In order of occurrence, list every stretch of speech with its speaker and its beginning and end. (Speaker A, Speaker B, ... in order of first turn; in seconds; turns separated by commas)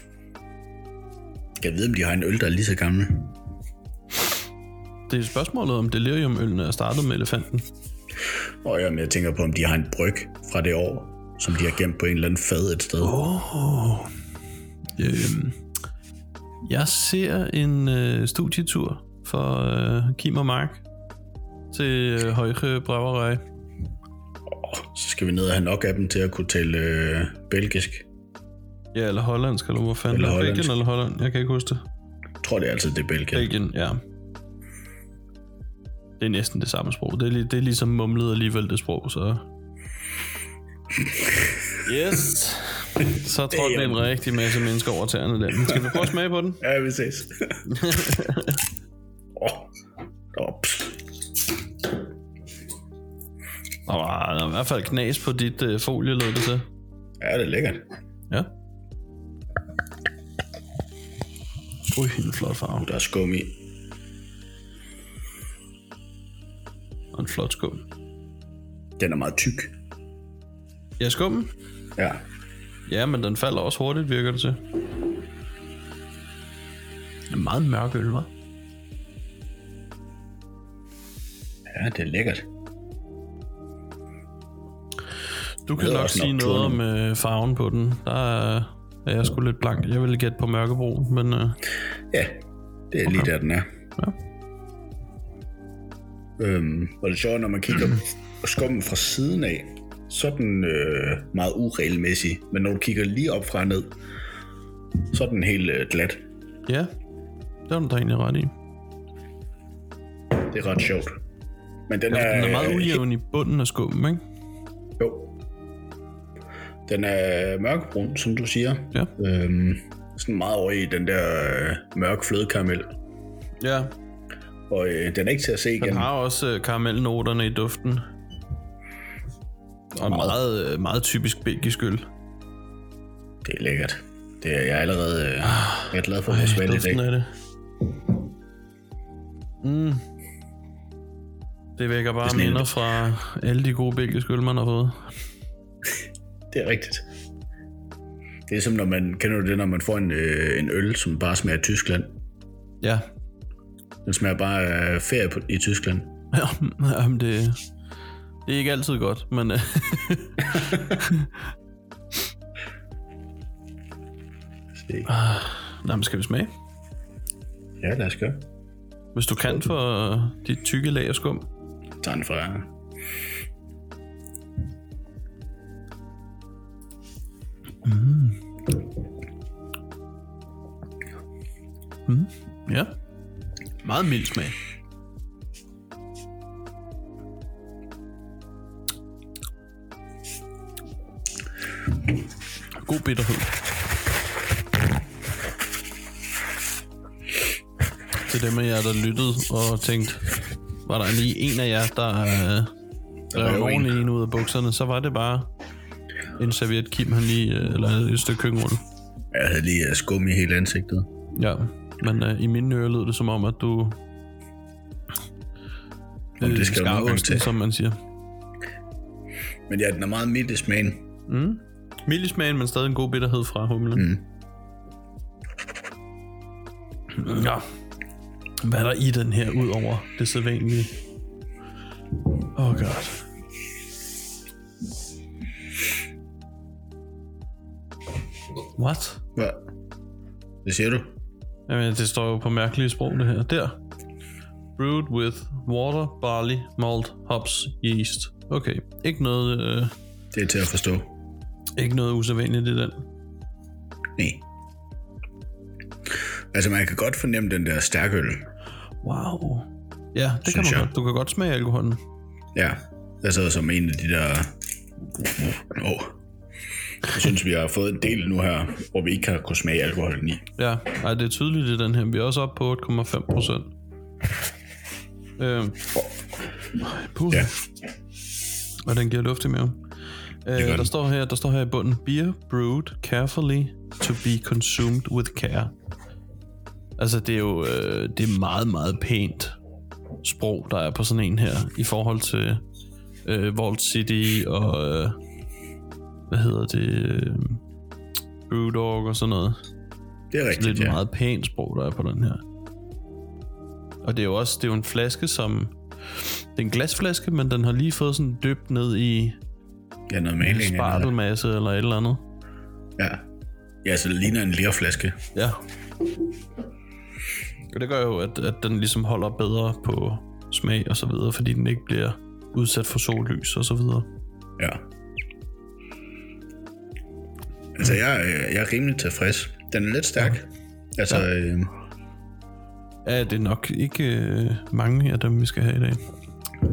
Speaker A: 1.6-3.3, Speaker B: 5.1-7.7, Speaker A: 8.6-13.2, Speaker B: 13.0-14.1, Speaker B: 14.9-15.6, Speaker B: 16.6-20.8, Speaker B: 21.7-23.4, Speaker A: 24.5-28.1, Speaker B: 28.9-31.8, Speaker A: 30.1-30.7, Speaker A: 32.4-33.5, Speaker B: 33.3-34.0, Speaker B: 36.2-39.4, Speaker A: 41.0-41.8, Speaker B: 41.8-46.6, Speaker A: 43.0-44.1, Speaker A: 45.6-46.1, Speaker A: 46.6-47.7, Speaker B: 47.7-48.6, Speaker A: 49.4-49.7, Speaker A: 50.3-51.0, Speaker B: 53.9-56.6, Speaker A: 57.2-57.9, Speaker B: 61.9-62.9, Speaker A: 62.8-63.5, Speaker B: 67.1-67.8, Speaker A: 69.0-69.7, Speaker B: 71.0-71.5, Speaker A: 72.0-72.2, Speaker B: 72.9-74.6, Speaker B: 77.3-78.3, Speaker A: 81.7-82.5, Speaker B: 85.7-91.6, Speaker A: 85.8-86.8, Speaker A: 92.1-92.4, Speaker A: 92.9-93.7, Speaker A: 96.4-103.9, Speaker A: 105.1-106.2, Speaker B: 106.7-106.9, Speaker B: 107.7-108.5, Speaker A: 110.4-111.2, Speaker A: 111.9-113.0, Speaker B: 112.1-114.2, Speaker A: 115.0-115.3, Speaker A: 116.9-122.9, Speaker B: 123.6-123.9, Speaker A: 124.7-126.1, Speaker B: 125.8-128.1, Speaker B: 129.9-132.1, Speaker A: 130.0-130.4, Speaker A: 133.4-137.0, Speaker B: 135.4-137.3, Speaker B: 139.6-140.0, Speaker B: 141.8-145.1, Speaker A: 142.2-142.7, Speaker A: 146.5-147.0, Speaker A: 148.5-152.2, Speaker A: 154.0-156.1, Speaker B: 156.3-157.6, Speaker B: 158.4-161.3, Speaker A: 164.8-165.1, Speaker B: 165.1-166.5, Speaker A: 167.8-168.4, Speaker B: 169.1-171.5, Speaker A: 172.0-172.7, Speaker B: 177.8-178.4, Speaker B: 182.1-182.9, Speaker B: 183.8-184.6, Speaker B: 192.7-193.6, Speaker B: 198.2-200.3, Speaker B: 200.8-202.7, Speaker A: 203.3-204.0, Speaker B: 203.3-205.5, Speaker B: 206.3-208.8, Speaker A: 209.3-211.1, Speaker B: 211.3-214.0, Speaker A: 216.4-217.5, Speaker B: 216.4-218.0, Speaker A: 219.7-221.1, Speaker B: 221.3-224.1, Speaker A: 223.9-224.2, Speaker B: 227.1-227.6, Speaker B: 228.6-231.0, Speaker B: 232.4-233.2, Speaker B: 238.8-239.2, Speaker A: 239.3-239.6, Speaker A: 240.6-241.1, Speaker B: 241.7-243.8, Speaker B: 244.8-249.9, Speaker A: 250.3-251.1, Speaker B: 251.8-253.0, Speaker A: 254.2-254.4, Speaker A: 256.5-258.5, Speaker B: 259.0-262.0, Speaker A: 260.4-260.9, Speaker A: 262.5-264.5, Speaker A: 265.6-266.2, Speaker A: 267.0-270.5, Speaker B: 270.6-273.7, Speaker B: 275.4-275.9, Speaker B: 276.8-277.6, Speaker B: 278.8-279.8, Speaker B: 280.4-285.7, Speaker A: 280.6-280.9, Speaker B: 287.0-289.6, Speaker B: 290.2-292.6, Speaker B: 293.2-295.2, Speaker B: 296.3-297.6, Speaker B: 298.5-299.6, Speaker A: 300.3-301.0, Speaker B: 300.5-302.4, Speaker B: 304.0-309.4, Speaker A: 310.1-311.1, Speaker B: 310.4-312.2, Speaker A: 313.0-313.2, Speaker A: 313.8-315.2, Speaker B: 315.3-315.6, Speaker B: 317.7-324.1, Speaker A: 324.6-324.8, Speaker A: 327.8-331.7, Speaker B: 333.0-336.0